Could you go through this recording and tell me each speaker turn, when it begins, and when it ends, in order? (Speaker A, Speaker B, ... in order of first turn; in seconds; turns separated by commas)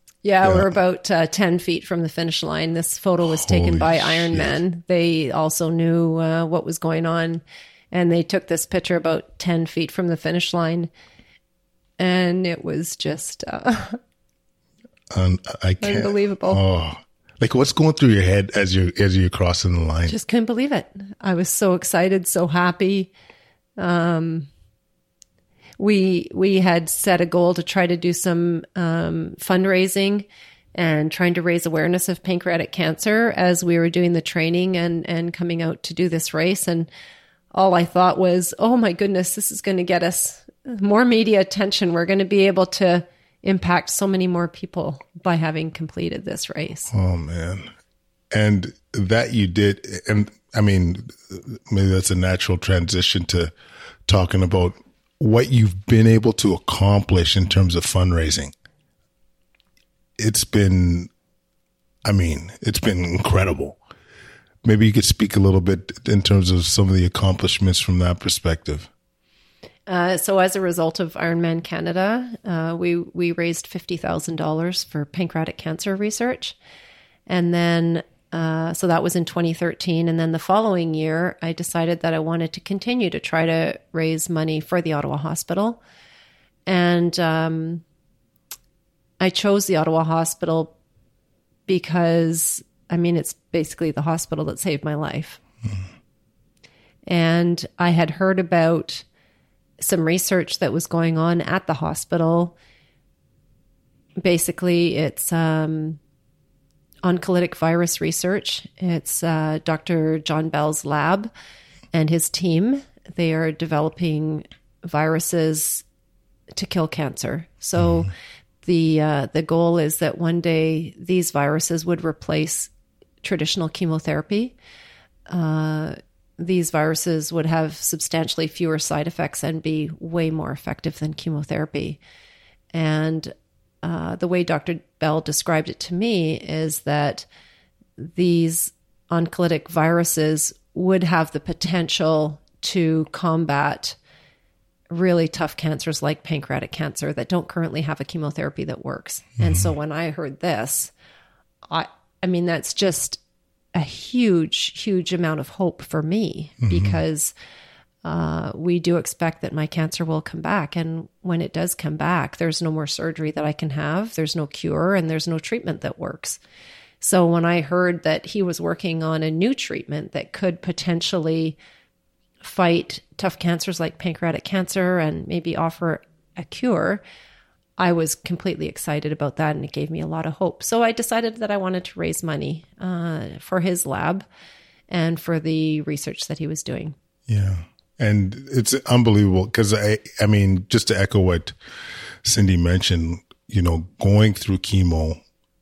Speaker A: 0.2-10.9, Speaker B: 0.4-0.8, Speaker B: 3.2-4.6, Speaker A: 12.0-14.0, Speaker B: 15.1-20.1, Speaker A: 15.8-16.6, Speaker A: 20.1-23.1, Speaker A: 23.8-24.5, Speaker A: 25.8-36.9, Speaker A: 37.5-46.9, Speaker B: 46.9-47.7, Speaker B: 48.3-53.5, Speaker B: 54.1-58.5, Speaker B: 60.2-61.1, Speaker B: 62.0-63.8, Speaker B: 64.6-68.9, Speaker A: 69.9-76.6, Speaker A: 77.3-85.8, Speaker A: 86.7-87.8, Speaker A: 89.2-90.8, Speaker A: 91.7-95.4, Speaker A: 97.1-99.1, Speaker A: 99.8-102.5, Speaker A: 104.2-106.0, Speaker A: 107.0-111.3, Speaker A: 111.9-115.8, Speaker A: 116.5-118.1, Speaker A: 118.6-122.7, Speaker A: 123.2-124.5, Speaker A: 125.3-132.0, Speaker A: 132.7-137.3, Speaker A: 138.0-144.0, Speaker A: 144.9-150.9, Speaker B: 149.4-149.7, Speaker A: 151.7-153.2, Speaker A: 153.7-157.3, Speaker B: 156.6-156.9, Speaker A: 158.0-166.4, Speaker A: 167.0-171.6, Speaker A: 172.4-177.0, Speaker A: 177.8-184.3, Speaker A: 184.9-187.0, Speaker B: 187.3-191.6, Speaker B: 192.2-195.2